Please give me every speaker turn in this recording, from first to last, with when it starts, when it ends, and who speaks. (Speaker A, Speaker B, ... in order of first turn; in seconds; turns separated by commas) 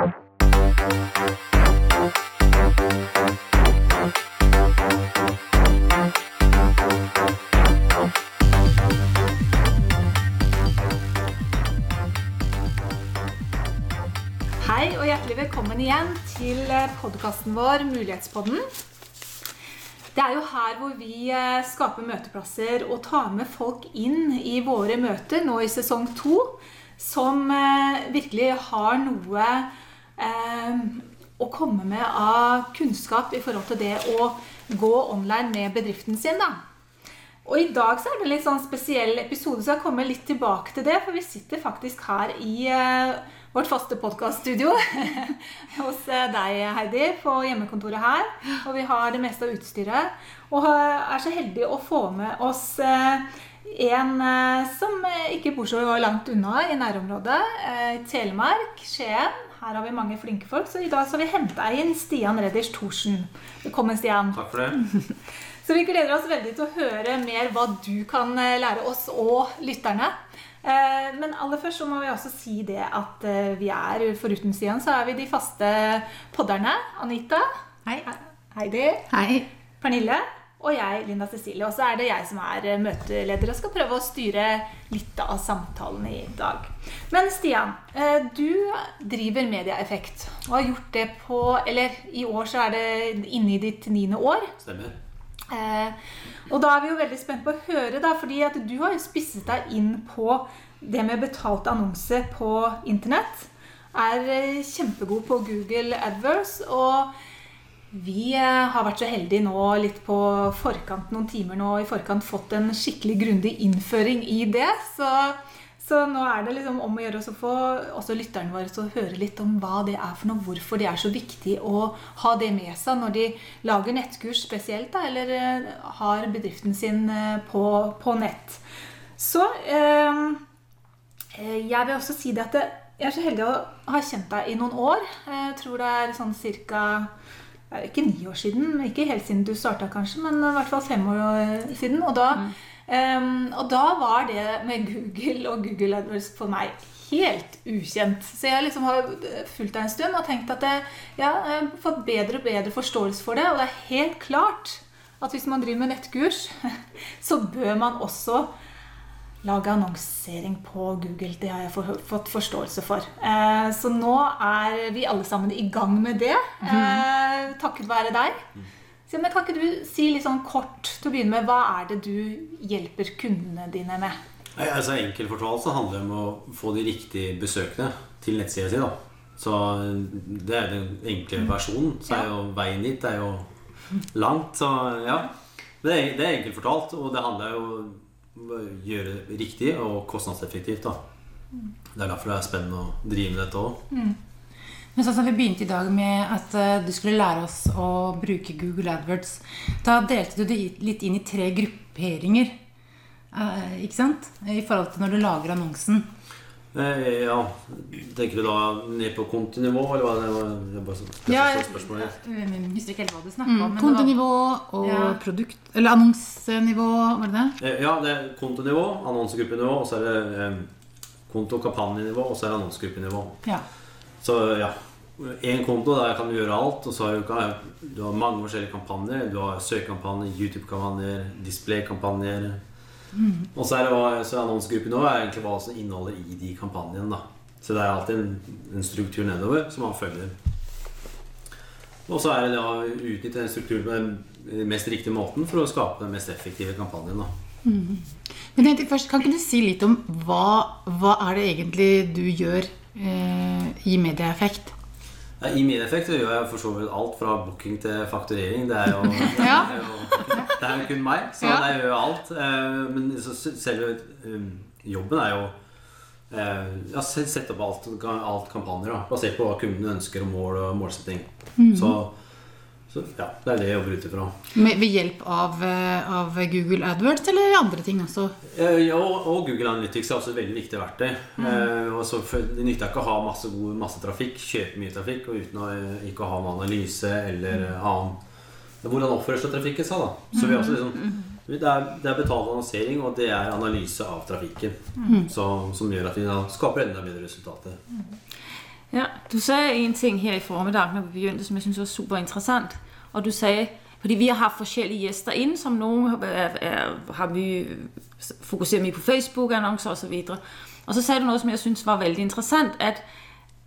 Speaker A: 14.6-18.7, Speaker A: 20.1-36.6, Speaker A: 37.4-64.8, Speaker B: 64.3-64.8, Speaker A: 65.6-77.5, Speaker A: 78.1-79.1, Speaker C: 79.1-79.5, Speaker A: 79.8-94.5, Speaker B: 94.6-94.9, Speaker A: 95.5-107.1, Speaker A: 107.9-128.6, Speaker A: 129.2-130.4, Speaker A: 131.3-137.1, Speaker A: 137.7-158.5, Speaker A: 159.4-168.4, Speaker A: 169.1-174.2, Speaker B: 174.6-183.5, Speaker B: 184.1-185.3, Speaker B: 185.8-191.0, Speaker B: 191.9-193.8, Speaker A: 193.9-194.2, Speaker D: 194.9-202.6, Speaker D: 203.3-206.1, Speaker B: 206.7-212.1, Speaker D: 211.3-214.2, Speaker C: 213.4-217.6, Speaker D: 214.8-215.2, Speaker B: 217.6-220.7, Speaker B: 221.3-223.4, Speaker B: 224.2-232.6, Speaker D: 233.1-233.5, Speaker B: 233.5-240.3, Speaker B: 242.1-247.3, Speaker C: 247.6-254.7, Speaker B: 255.4-265.5, Speaker C: 259.3-259.7, Speaker C: 261.4-261.7, Speaker B: 266.3-272.1, Speaker B: 272.9-274.3, Speaker C: 274.5-278.3, Speaker B: 278.5-288.2, Speaker B: 288.8-297.8, Speaker E: 298.9-313.0